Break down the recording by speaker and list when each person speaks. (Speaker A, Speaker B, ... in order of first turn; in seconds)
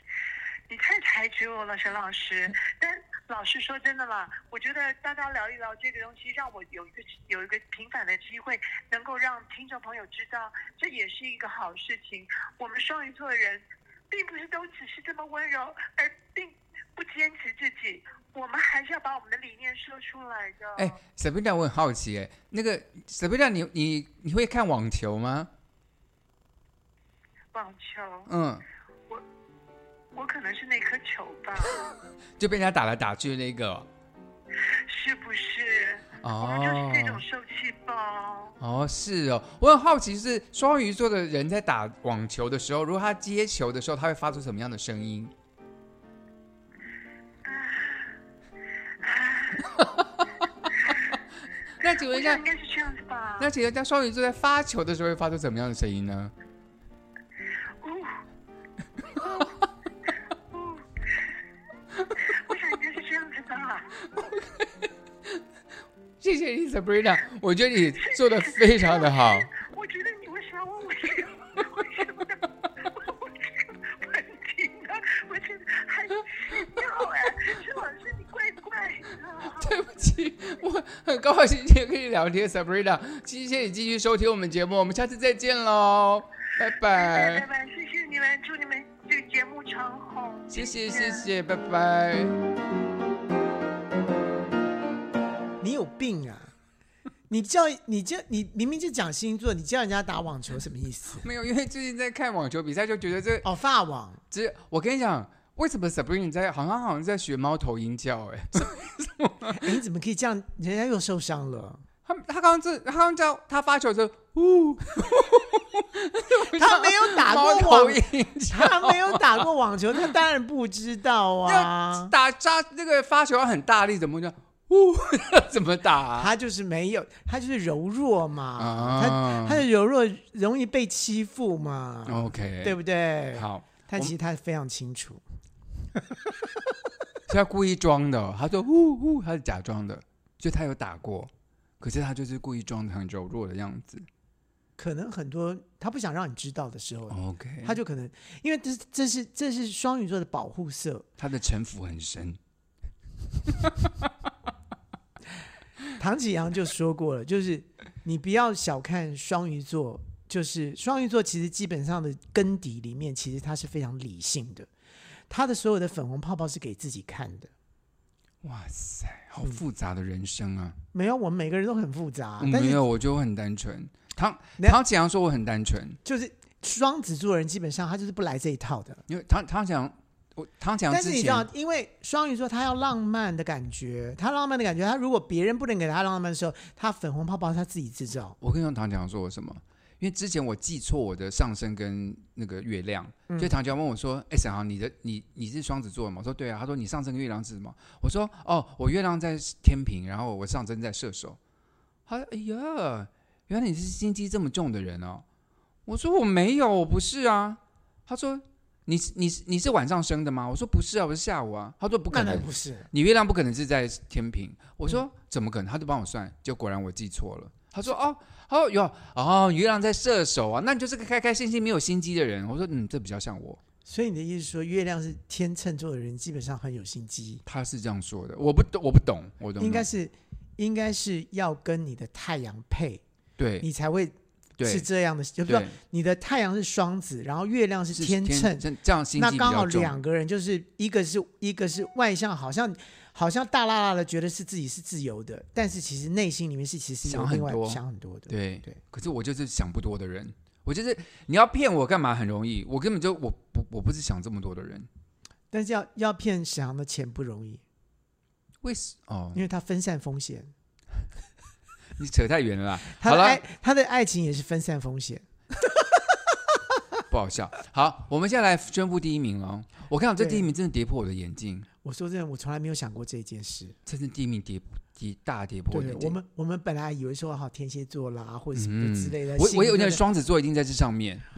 Speaker A: 0.7-20.9, 27.5-28.3, 30.1-31.9, 34.6-38.5, 47.4-48.1, 49.0-50.0, 50.7-51.0, 52.1-53.5, 57.8-58.2, 59.2-59.5, 60.5-61.2, 62.2-64.0, 68.0-79.8, 86.8-91.3
Speaker B: 20.8-25.5, 28.3-28.6, 32.4-33.9, 36.2-37.2, 38.6-45.3, 51.8-52.4, 53.4-56.3, 59.2-59.4, 64.1-64.7, 66.2-69.5, 76.5-77.5, 79.5-87.5, 90.5-92.4, 101.2-103.5, 104.3-109.8, 112.0-119.5, 121.4-126.3, 128.6-129.6, 132.1-132.8, 133.3-134.1, 137.3-144.1, 147.1-147.8, 151.2-152.4, 153.5-154.1, 168.4-170.8, 172.4-176.0, 179.1-181.5, 188.4-201.4, 202.1-205.2, 205.8-223.6, 227.4-229.9, 233.4-233.7, 234.6-234.9, 235.4-235.8, 237.9-240.0, 247.0-254.9, 258.6-259.4, 261.9-263.4, 267.1-271.7, 273.9-276.2, 278.5-281.2
Speaker C: 95.6-96.5, 97.3-101.3, 103.4-104.2, 109.5-111.8, 116.3-122.1, 126.2-135.2, 135.9-136.3, 144.8-151.1, 156.0-164.7, 165.3-167.5, 170.9-172.8, 176.0-179.0, 180.9-188.4, 193.3-193.5, 212.1-212.9, 223.8-227.4, 229.6-233.0, 233.6-248.8, 255.5-257.6, 259.3-260.5, 262.9-266.0, 270.2-270.4, 271.8-273.8, 275.7-280.0